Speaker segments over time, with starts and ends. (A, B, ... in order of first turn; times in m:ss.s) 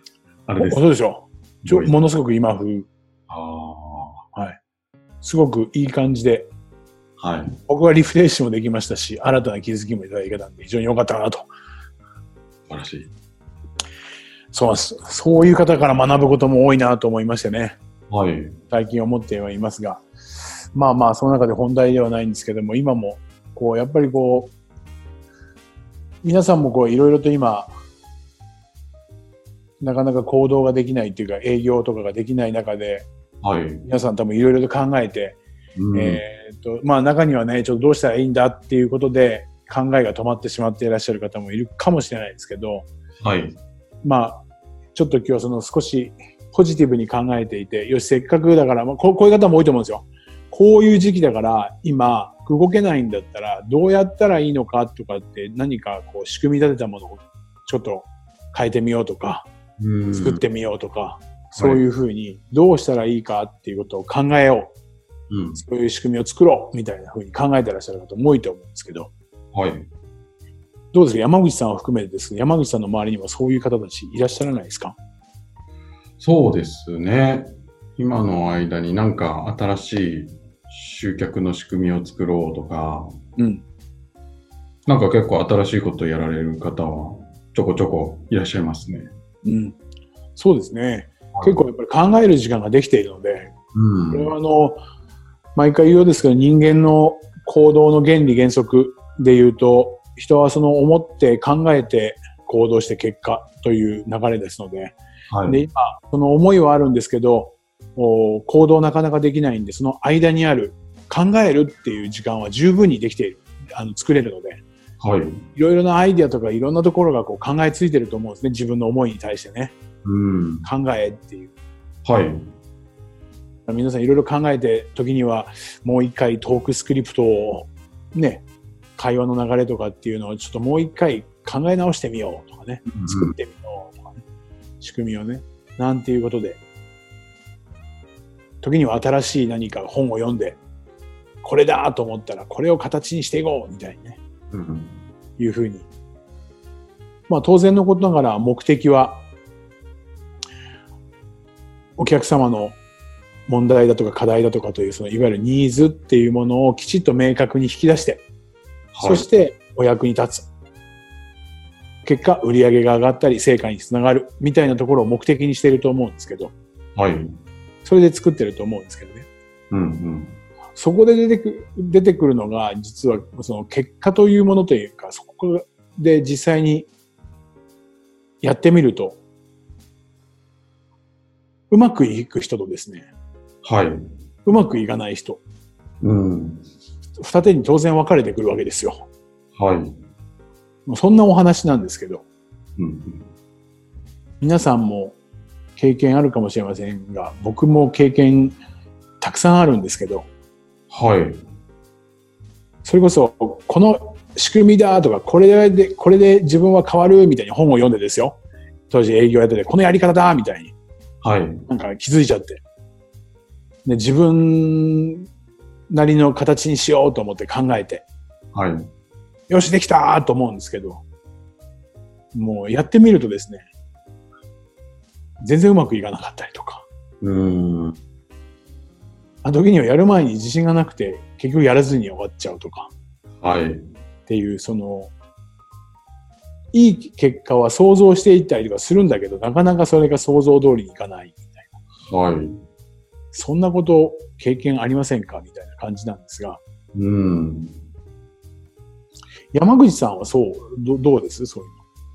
0:00.5-0:00.8 A
0:00.6-0:02.9 B
0:01.6-0:01.9 A
0:03.3-0:04.2 A
0:04.3-0:04.6 B
0:05.2-0:06.5 B
0:07.2-0:07.6 A
0:07.7-0:11.5 B
0:12.7-0:13.1 A
0:14.5-0:17.8 B
0:18.1-0:18.6 A
0:18.7-0:20.0 B
0:20.7-0:24.5 B
0:26.2-0:27.7 B
0:29.8-0:33.1 B
0:33.4-0:33.9 A
0:33.8-0:35.4 B
0:35.8-0:36.2 A
0:35.9-0:42.9 B
0:43.2-0:43.6 A
0:44.0-0:44.4 B
0:45.0-0:59.5 B
0:59.8-1:00.4 A
1:00.1-1:04.7 B
1:05.3-1:05.6 A
1:05.6-1:09.1 B
1:09.5-1:09.9 A
1:10.9-1:15.0 B
1:16.2-1:23.1 A
1:23.4-1:23.6 B
1:24.9-1:29.1 A
1:29.4-1:29.8 B
1:30.4-1:33.5 B
1:31.3-1:31.6 A
1:33.7-1:34.3 A
1:34.1-1:34.8 B
1:35.6-1:54.6 B
1:45.3-1:45.6 A
1:55.0-1:55.4 A
1:55.5-1:59.7 B
2:00.0-2:00.7 A
2:00.6-2:01.5 B
2:02.0-2:02.4 A
2:03.7-2:08.4 B
2:09.0-2:14.2 B
2:12.9-2:13.4 A
2:14.8-2:16.6 B
2:18.6-2:20.6 B
2:21.4-2:24.2 B
2:24.5-2:25.0 A
2:25.4-2:25.9 B
2:27.3-2:29.2 B
2:32.0-2:32.8 B
2:33.5-2:38.2 B
2:38.9-2:39.3 A
2:39.0-2:40.5 B
2:42.0-2:46.5 B
2:47.0-2:47.3 A
2:47.8-2:49.3 B
2:49.7-2:50.4 A
2:50.8-2:56.9 B
2:58.4-2:59.2 B
3:01.7-3:03.1 B
3:03.6-3:04.0 A
3:04.4-3:05.4 B
3:06.0-3:06.6 A
3:07.2-3:09.0 B
3:09.6-3:10.0 A
3:10.9-3:12.2 B
3:12.8-3:13.3 A
3:14.4-3:15.2 B
3:15.8-3:18.6 B
3:19.2-3:20.3 B
3:20.9-3:21.4 A
3:22.8-3:28.4 B
3:28.9-3:30.7 B
3:31.2-3:31.6 A
3:31.7-3:32.6 B
3:33.8-3:35.3 B
3:35.9-3:38.0 B
3:38.5-3:38.9 A
3:39.5-3:41.0 B
3:42.3-3:43.6 B
3:45.4-3:46.9 B
3:47.2-3:48.0 A
3:49.4-3:52.9 B
3:53.4-3:53.8 A
3:54.3-3:55.1 B
3:56.7-4:01.7 B
4:02.0-4:02.6 A
4:03.3-4:06.6 B
4:06.9-4:07.8 A
4:09.5-4:11.8 B